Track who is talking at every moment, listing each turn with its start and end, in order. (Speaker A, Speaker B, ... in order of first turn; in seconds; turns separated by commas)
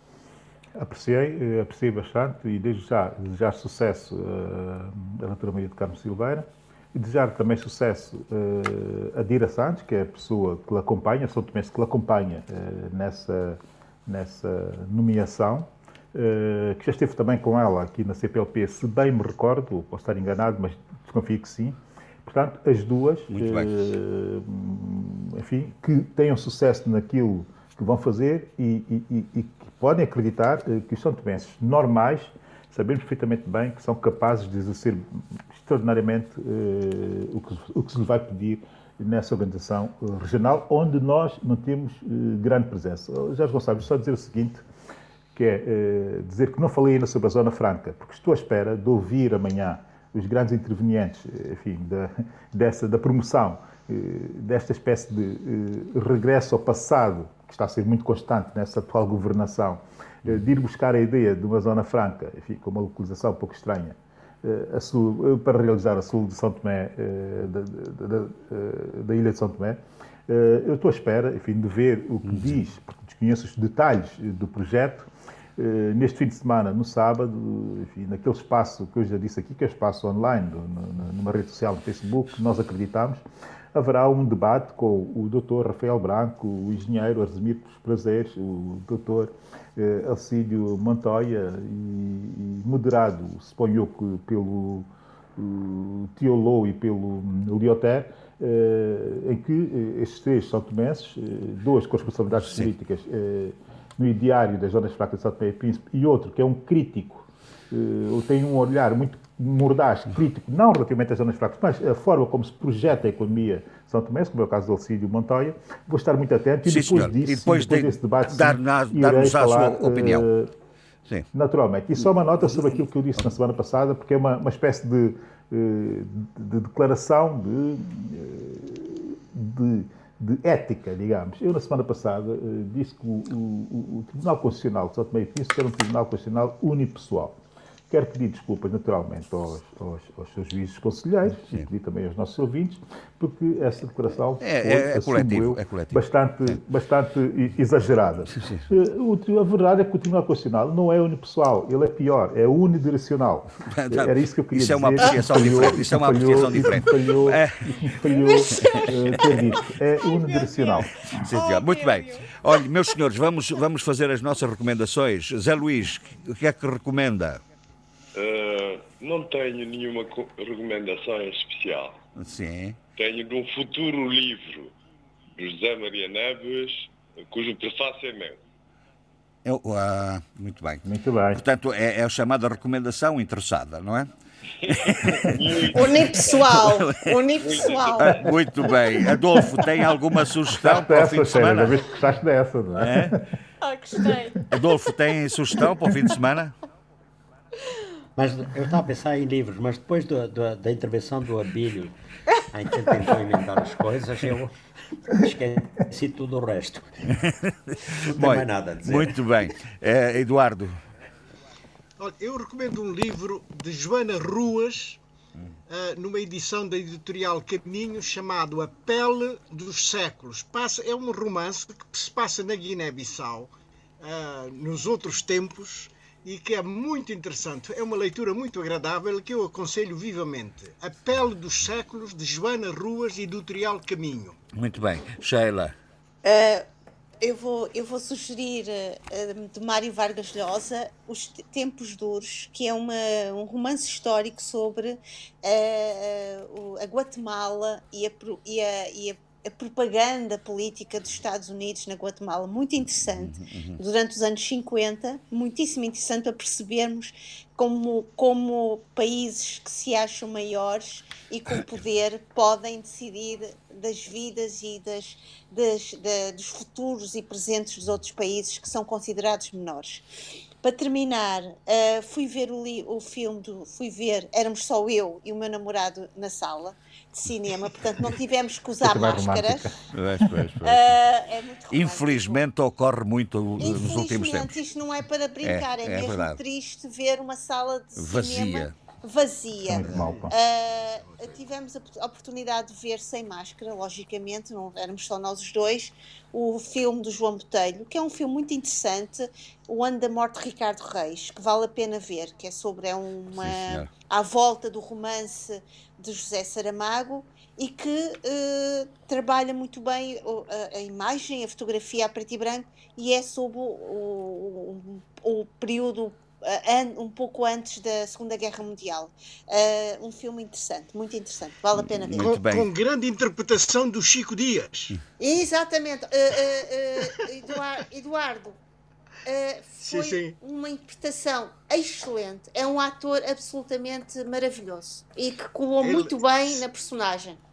Speaker A: 0.8-44.6, Speaker B: 23.3-23.7, Speaker A: 45.4-83.2, Speaker A: 83.7-120.5, Speaker B: 116.7-120.3, Speaker A: 121.3-137.4, Speaker A: 137.9-161.3, Speaker B: 144.4-146.0, Speaker B: 148.3-148.7, Speaker B: 153.7-157.9, Speaker C: 158.1-159.3, Speaker B: 158.6-159.4, Speaker C: 160.0-162.5, Speaker B: 161.2-167.4, Speaker D: 168.2-172.0, Speaker B: 172.2-172.8, Speaker D: 173.0-174.7, Speaker D: 175.4-178.4, Speaker B: 179.4-184.1, Speaker A: 180.8-181.4, Speaker B: 184.7-191.8, Speaker D: 184.7-186.4, Speaker C: 185.7-188.2, Speaker D: 187.4-188.3, Speaker A: 190.4-193.2, Speaker B: 192.8-193.2, Speaker C: 193.6-194.5, Speaker B: 194.5-196.6, Speaker E: 198.2-201.9, Speaker E: 202.5-204.5, Speaker E: 205.1-207.1, Speaker B: 207.2-210.8, Speaker E: 207.9-209.2, Speaker F: 212.0-215.0, Speaker F: 215.7-234.4, Speaker B: 234.6-235.8, Speaker C: 236.2-236.7, Speaker C: 237.2-270.1, Speaker B: 253.1-253.8, Speaker C: 270.6-279.8, Speaker A: 278.8-280.4, Speaker B: 279.9-281.0, Speaker C: 280.6-282.4, Speaker B: 281.7-284.6, Speaker C: 283.6-322.4, Speaker B: 285.4-286.4, Speaker B: 288.0-288.8, Speaker A: 289.7-290.4, Speaker B: 289.8-290.1, Speaker F: 290.0-290.3, Speaker B: 303.4-303.9, Speaker B: 321.7-322.7, Speaker F: 322.2-325.0, Speaker C: 325.2-328.6, Speaker C: 329.2-337.4, Speaker F: 329.8-330.4, Speaker F: 335.8-336.6